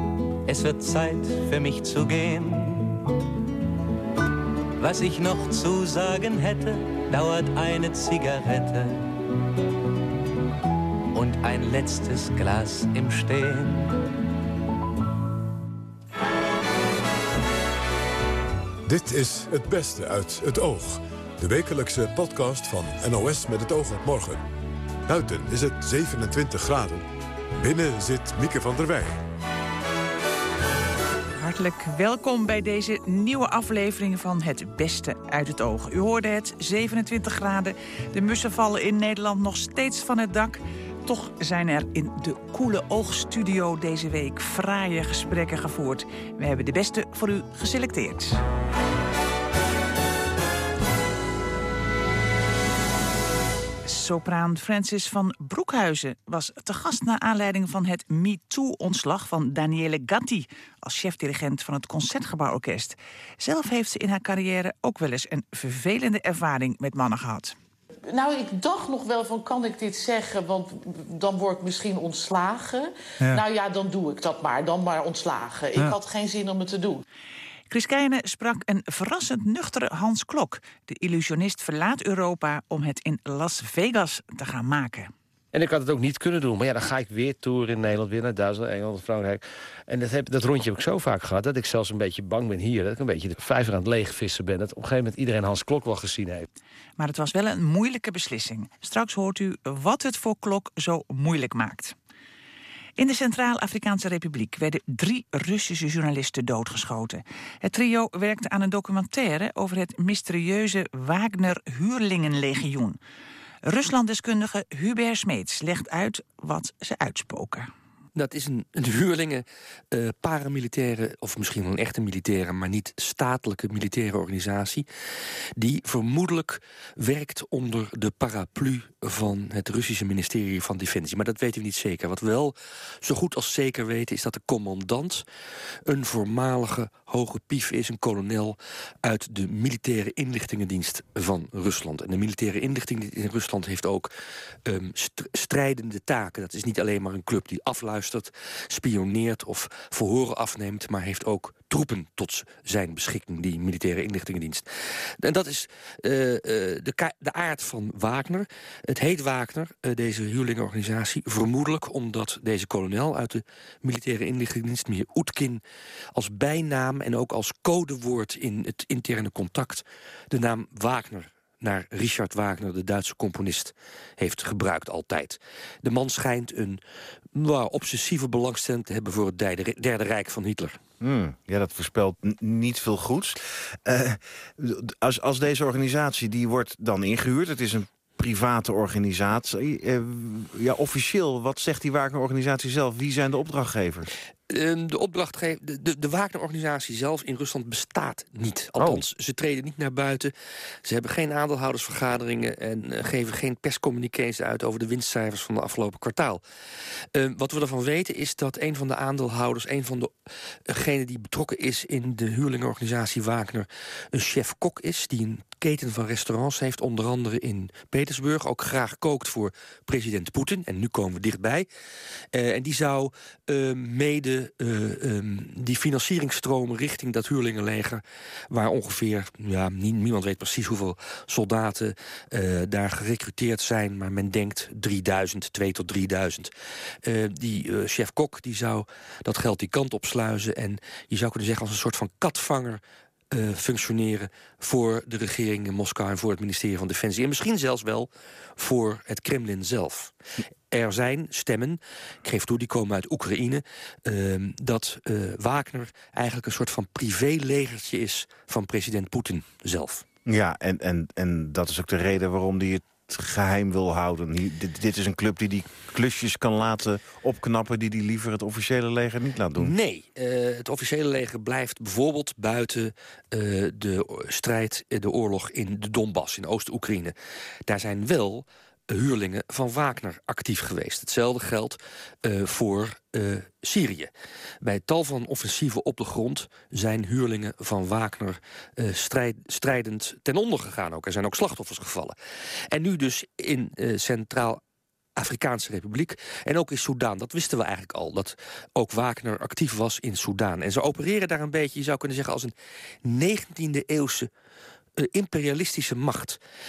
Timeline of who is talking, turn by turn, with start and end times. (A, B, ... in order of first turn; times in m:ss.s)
0:00.4-0:03.0 A
0:04.8-0:09.2 A
0:11.1-0:14.1 A
0:18.9-0:24.4 B
0:25.1-0:27.0 B
0:27.6-0:29.2 B
0:31.3-0:48.4 C
0:53.8-1:07.6 C
1:08.1-1:17.0 D
1:17.7-1:25.1 C
1:25.5-1:36.5 E
1:37.0-1:42.0 C
1:43.0-1:53.0 C
1:53.6-1:57.7 C
1:58.2-2:04.9 F
2:05.6-2:15.2 F
2:15.9-2:24.1 F
2:24.7-2:34.6 F
2:35.2-2:45.6 F
2:46.1-2:56.8 F
2:57.3-3:00.8 F
3:01.0-3:14.1 G
3:14.5-3:20.3 F
3:18.8-3:19.0 G
3:20.8-3:26.4 F
3:27.1-3:30.1 F
3:30.7-3:41.7 F
3:42.3-3:56.5 F
3:57.0-4:10.1 F
4:10.7-4:20.0 F
4:20.2-4:29.7 G
4:29.6-4:37.1 F
4:37.7-4:44.1 F
4:44.6-4:52.1 F
4:52.7-4:54.6 F
4:55.2-5:02.5 F
5:03.0-5:04.3 F
5:05.0-5:06.4 F